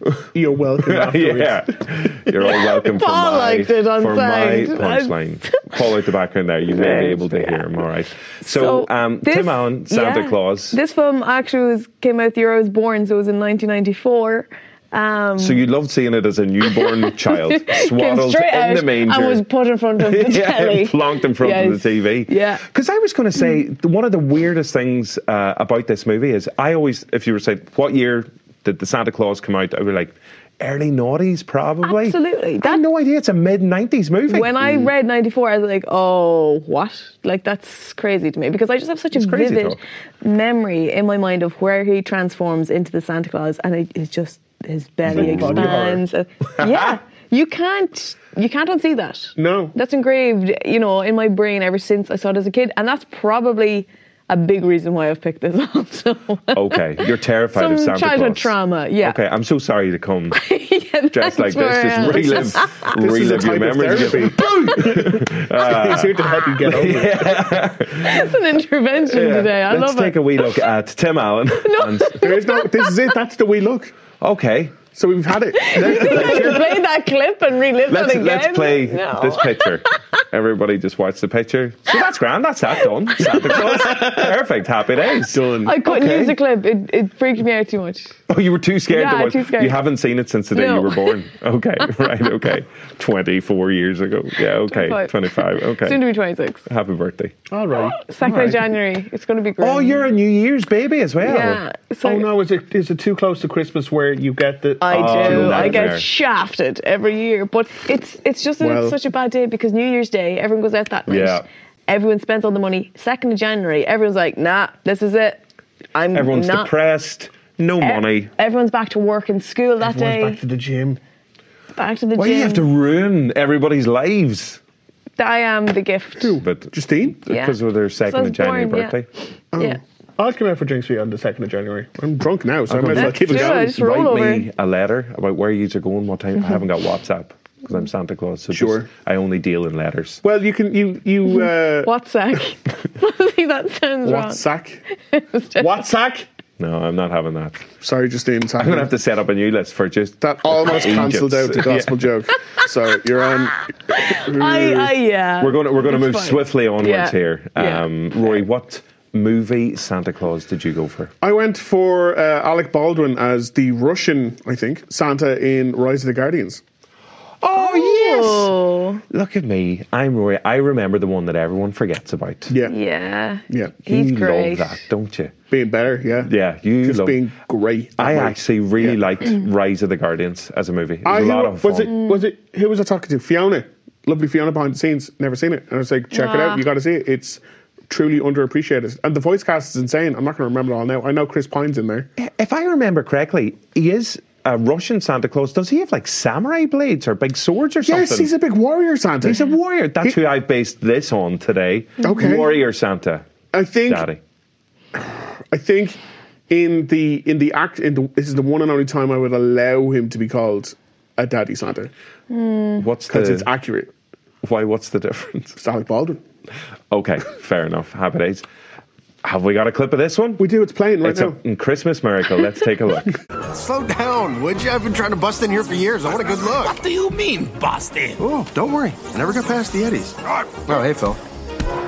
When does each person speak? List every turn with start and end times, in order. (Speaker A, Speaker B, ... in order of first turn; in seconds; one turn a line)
Speaker A: 0.3-1.6
Speaker B: 0.9-10.8
Speaker C: 2.9-5.6
Speaker C: 6.7-7.7
Speaker C: 8.4-15.6
Speaker B: 15.4-19.4
Speaker C: 16.6-22.6
Speaker B: 20.0-34.7
Speaker C: 31.8-32.8
Speaker C: 34.3-59.2
Speaker B: 39.1-39.8
Speaker B: 45.1-46.0
Speaker A: 45.1-46.0
Speaker B: 46.6-47.0
Speaker A: 49.4-49.7
Speaker B: 56.5-60.4
Speaker C: 60.3-62.9
Speaker B: 61.1-68.3
Speaker A: 63.0-67.3
Speaker C: 68.0-70.4
Speaker B: 69.0-72.3
Speaker C: 71.7-72.9
Speaker A: 72.2-74.0
Speaker B: 74.2-74.8
Speaker A: 74.9-76.6
Speaker C: 75.6-79.8
Speaker B: 75.7-76.8
Speaker B: 77.9-85.4
Speaker A: 85.3-86.3
Speaker C: 85.7-88.2
Speaker B: 88.3-96.0
Speaker C: 88.9-89.8
Speaker C: 90.5-91.2
Speaker C: 94.6-96.7
Speaker B: 96.7-97.3
Speaker A: 97.5-98.6
Speaker C: 97.8-100.1
Speaker B: 99.6-101.6
Speaker C: 101.2-102.3
Speaker A: 102.0-105.9
Speaker C: 104.8-115.4
Speaker B: 104.9-106.1
Speaker A: 108.6-109.0
Speaker B: 111.1-111.5
Speaker C: 116.0-116.7
Speaker B: 116.1-118.3
Speaker C: 117.8-120.4
Speaker A: 119.8-121.0
Speaker C: 121.8-122.7
Speaker B: 122.2-124.6
Speaker C: 125.2-126.4
Speaker A: 126.2-127.2
Speaker B: 126.4-129.1
Speaker C: 127.3-129.0
Speaker A: 129.5-133.7
Speaker B: 132.7-140.2
Speaker C: 132.9-134.5
Speaker A: 138.5-138.9
Speaker A: 140.2-141.9
Speaker C: 141.3-144.4
Speaker A: 144.1-144.8
Speaker C: 145.1-145.8
Speaker A: 145.6-146.3
Speaker B: 146.6-147.7
Speaker A: 147.8-148.9
Speaker B: 148.6-152.1
Speaker A: 150.2-154.9
Speaker C: 153.9-158.4
Speaker B: 155.4-161.1
Speaker A: 161.2-166.6
Speaker B: 167.4-168.5
Speaker C: 167.5-169.0
Speaker B: 169.1-172.5
Speaker A: 172.5-172.8
Speaker C: 172.7-174.8
Speaker B: 173.8-175.3
Speaker A: 175.5-176.3
Speaker B: 176.2-177.2
Speaker A: 176.8-179.0
Speaker B: 178.0-182.0
Speaker A: 181.1-192.1
Speaker C: 186.1-186.6
Speaker B: 192.2-198.3
Speaker A: 197.8-199.4
Speaker B: 199.2-203.3
Speaker A: 202.0-202.5
Speaker A: 203.5-204.1
Speaker B: 203.9-204.2
Speaker A: 205.0-206.0
Speaker A: 206.5-211.9
Speaker C: 212.3-212.9
Speaker B: 212.8-213.5
Speaker A: 213.1-213.9
Speaker B: 214.4-215.6
Speaker A: 215.6-216.2
Speaker B: 216.9-218.4
Speaker B: 219.2-220.4
Speaker A: 220.4-221.4
Speaker B: 221.0-223.2
Speaker D: 223.5-226.8
Speaker E: 226.1-228.2
Speaker D: 228.2-231.2